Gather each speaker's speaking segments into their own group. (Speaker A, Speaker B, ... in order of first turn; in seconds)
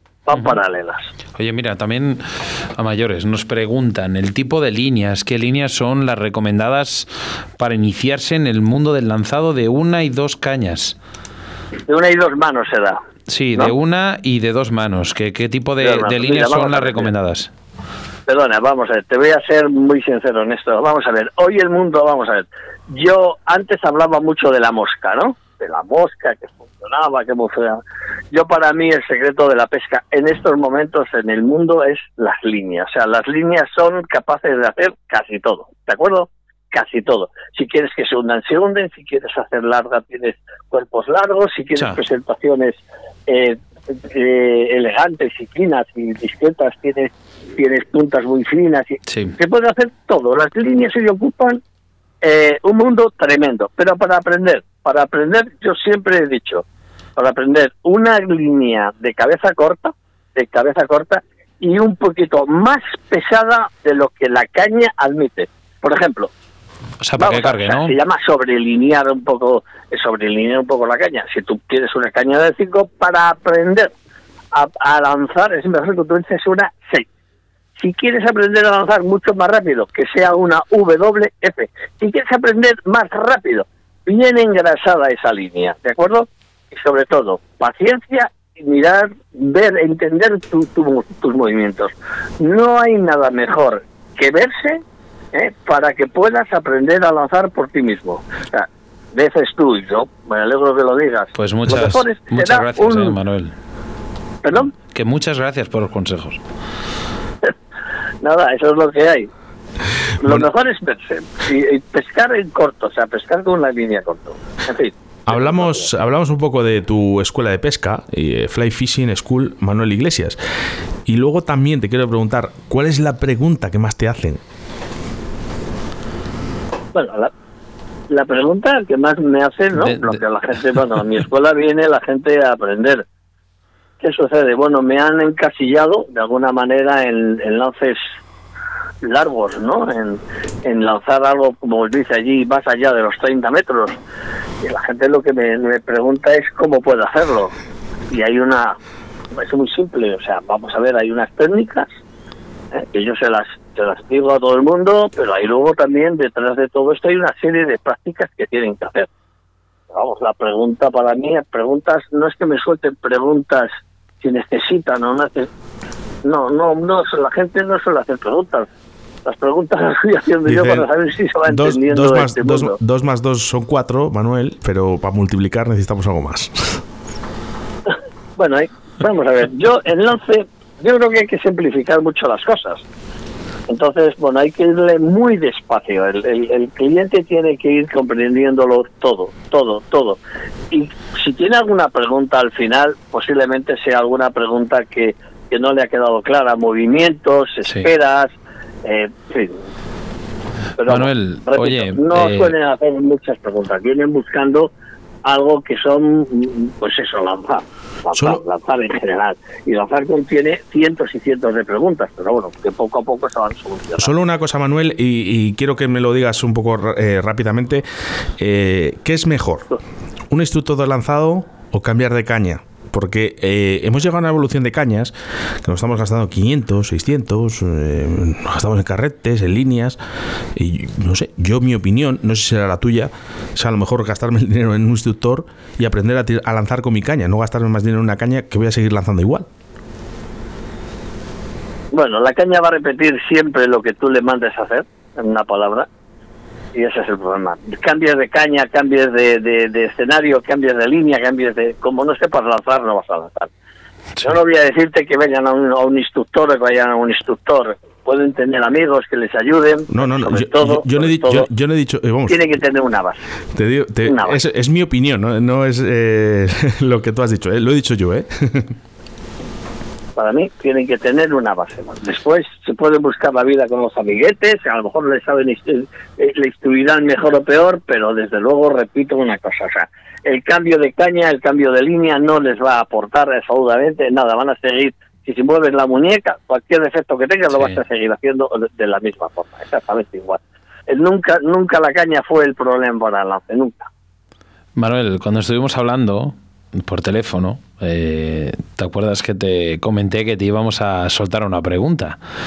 Speaker A: 0.3-1.1, 11.9-13.0, 15.8-17.1, 18.3-27.8, 28.3-51.6, 52.2-56.6, 57.2-66.3, 67.2-73.9, 74.5-77.0, 77.8-94.8, 95.3-103.2, 104.4-104.7, 108.2-109.3, 110.2-115.9, 126.9-127.3, 128.1-133.0, 134.0-138.0, 139.0-143.9, 144.6-147.5, 148.1-148.8, 149.3-151.9, 152.7-159.1, 159.9-163.7, 164.2-165.5, 166.2-168.7, 169.2-172.8, 177.9-182.8, 183.7-190.2, 190.7-199.6, 200.8-204.7, 205.2-214.1, 241.9-245.9, 246.7-253.5, 254.2-261.5, 262.3-263.2, 264.0-264.4, 270.2-293.9
Speaker B: 0.3-0.6, 1.4-10.9, 13.3-17.5, 49.1-49.4, 67.0-67.9, 101.3-103.5, 104.5-106.4, 129.8-130.2, 200.8-202.5, 287.5-287.8, 294.8-302.2
Speaker C: 115.3-120.4, 121.1-124.4, 170.4-170.9, 171.4-176.8, 208.1-208.4, 214.0-217.8, 218.4-219.7, 220.3-230.0, 230.6-239.5, 259.9-262.6, 263.5-268.7